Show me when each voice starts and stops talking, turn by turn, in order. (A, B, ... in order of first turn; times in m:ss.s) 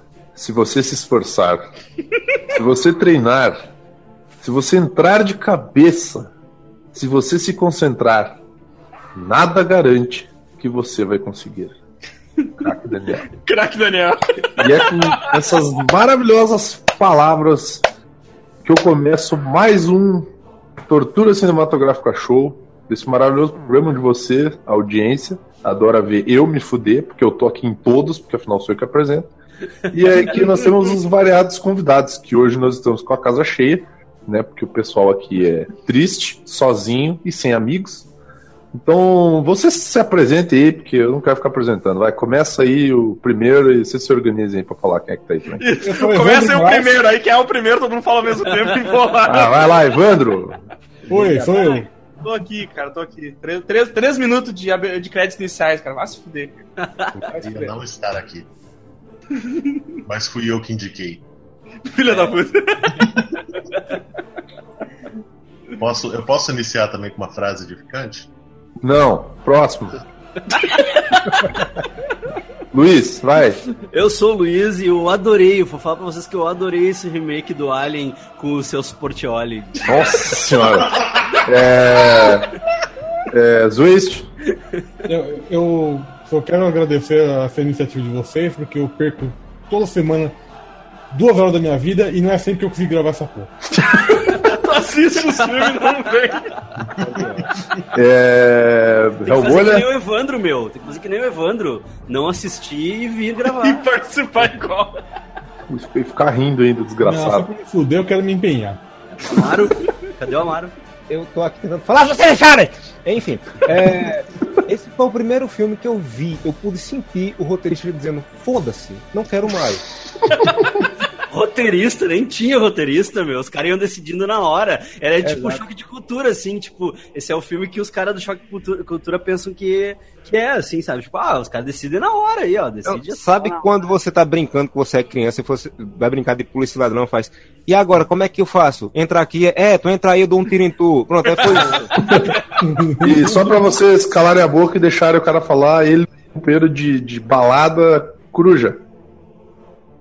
0:00.4-0:01.7 A
0:02.5-0:03.7 A
0:04.4-0:06.3 A
0:06.9-0:08.4 A
0:09.2-0:11.8 A
0:12.6-0:13.3 A
0:13.3-0:15.4 B
0:14.6-0:17.8 A
0:18.6-0:29.3 A
0:29.9-0:38.1 A
0:30.2-0:30.7 C
0:38.7-0:45.6 A
0:45.6-0:49.8 B
0:45.8-0:47.0 D
0:49.2-0:50.6 A
0:51.1-0:51.8 E
0:51.1-0:51.9 D
0:52.2-0:56.6 B
0:56.8-0:57.2 C
0:57.2-0:58.5 F
0:57.3-0:57.7 E
1:00.0-1:01.2 F
1:01.9-1:03.2 B
1:02.1-1:02.4 C
1:05.8-1:08.3 F
1:08.8-1:10.0 A
1:10.6-1:11.1 B
1:12.7-1:13.6 A
1:13.9-1:20.2 C
1:19.9-1:22.5 A
1:21.0-1:21.2 F
1:23.3-1:24.3 A
1:25.1-1:30.4 D
1:31.1-1:33.5 D
1:34.0-1:36.5 B
1:34.2-1:34.6 C
1:37.0-1:37.5 E
1:37.9-1:39.9 A
1:39.3-1:43.9 C
1:43.5-1:45.0 B
1:45.7-1:47.5 A
1:47.0-1:48.8 D
1:49.1-1:50.8 C
1:51.1-1:59.9 E
2:00.3-2:00.6 C
2:01.3-2:13.8 C
2:05.2-2:05.6 E
2:12.9-2:22.0 E
2:22.0-2:22.4 A
2:22.6-2:23.7 D
2:23.0-2:28.8 A